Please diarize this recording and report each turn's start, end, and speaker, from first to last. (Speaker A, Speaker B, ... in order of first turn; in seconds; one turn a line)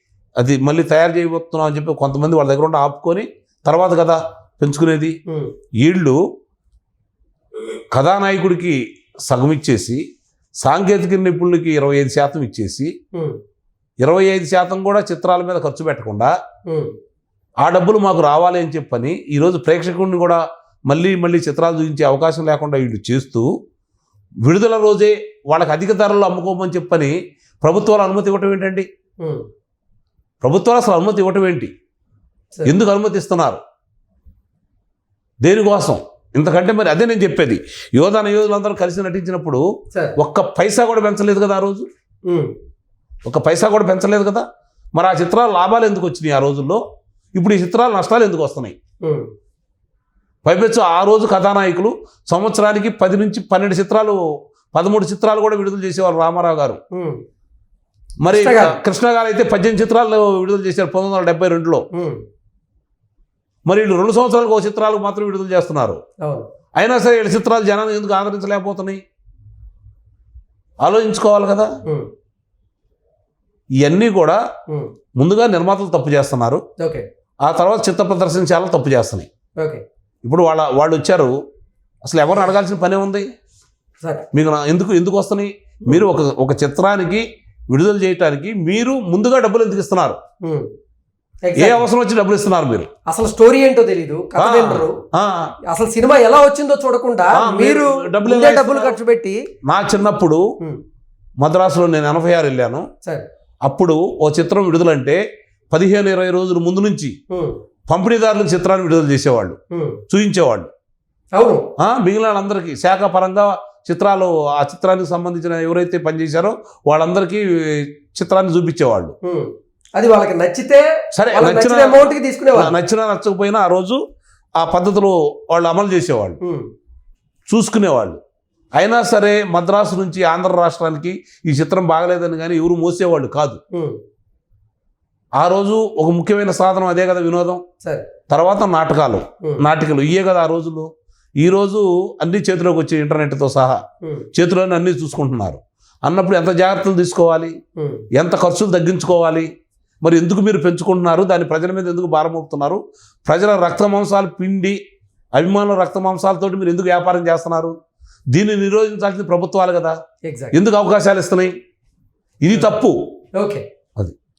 Speaker A: 0.4-5.2
Speaker B: 5.3-5.5
Speaker A: 5.8-6.2
Speaker A: 7.9-10.0
Speaker A: 10.6-12.9
Speaker B: 13.1-13.4
Speaker A: 14.0-16.3
Speaker B: 16.7-16.9
Speaker A: 17.6-23.5
Speaker A: 24.4-28.9
Speaker B: 29.2-29.5
Speaker A: 30.4-31.7
Speaker A: 32.6-33.6
Speaker A: 35.4-39.7
Speaker A: 40.2-41.9
Speaker B: 42.3-42.5
Speaker A: 43.3-46.8
Speaker A: 47.4-48.8
Speaker B: 49.0-49.3
Speaker A: 50.5-54.2
Speaker A: 54.7-56.8
Speaker B: 56.9-57.2
Speaker A: 58.2-61.9
Speaker B: 58.3-58.8
Speaker B: 61.9-62.2
Speaker A: 63.7-66.0
Speaker A: 66.8-69.0
Speaker A: 70.8-71.7
Speaker B: 71.8-72.1
Speaker A: 73.8-74.4
Speaker A: 75.2-76.6
Speaker B: 76.8-77.1
Speaker A: 77.4-79.3
Speaker B: 79.6-79.8
Speaker A: 80.2-81.4
Speaker A: 82.0-83.3
Speaker A: 84.3-90.2
Speaker B: 90.4-90.7
Speaker B: 91.4-91.8
Speaker A: 91.6-92.9
Speaker B: 93.1-95.0
Speaker A: 94.4-95.5
Speaker B: 95.7-99.4
Speaker A: 97.3-99.0
Speaker A: 99.6-100.5
Speaker A: 101.4-102.9
Speaker A: 103.7-107.2
Speaker B: 107.3-107.6
Speaker A: 107.9-109.6
Speaker B: 109.7-110.0
Speaker A: 110.1-110.7
Speaker B: 111.3-111.7
Speaker A: 111.8-119.2
Speaker B: 119.2-122.7
Speaker A: 121.1-124.0
Speaker A: 124.6-126.4
Speaker B: 126.4-126.7
Speaker A: 127.5-128.2
Speaker A: 128.8-133.6
Speaker B: 133.7-134.0
Speaker A: 135.4-137.6
Speaker B: 137.8-138.1
Speaker A: 138.3-140.9
Speaker A: 141.4-143.8
Speaker A: 144.3-147.5
Speaker B: 147.8-148.1
Speaker A: 148.1-149.5
Speaker A: 150.0-154.8
Speaker A: 155.3-157.8
Speaker A: 158.3-160.0
Speaker B: 160.2-160.6
Speaker A: 160.5-161.6
Speaker A: 162.4-163.0
Speaker B: 163.4-163.7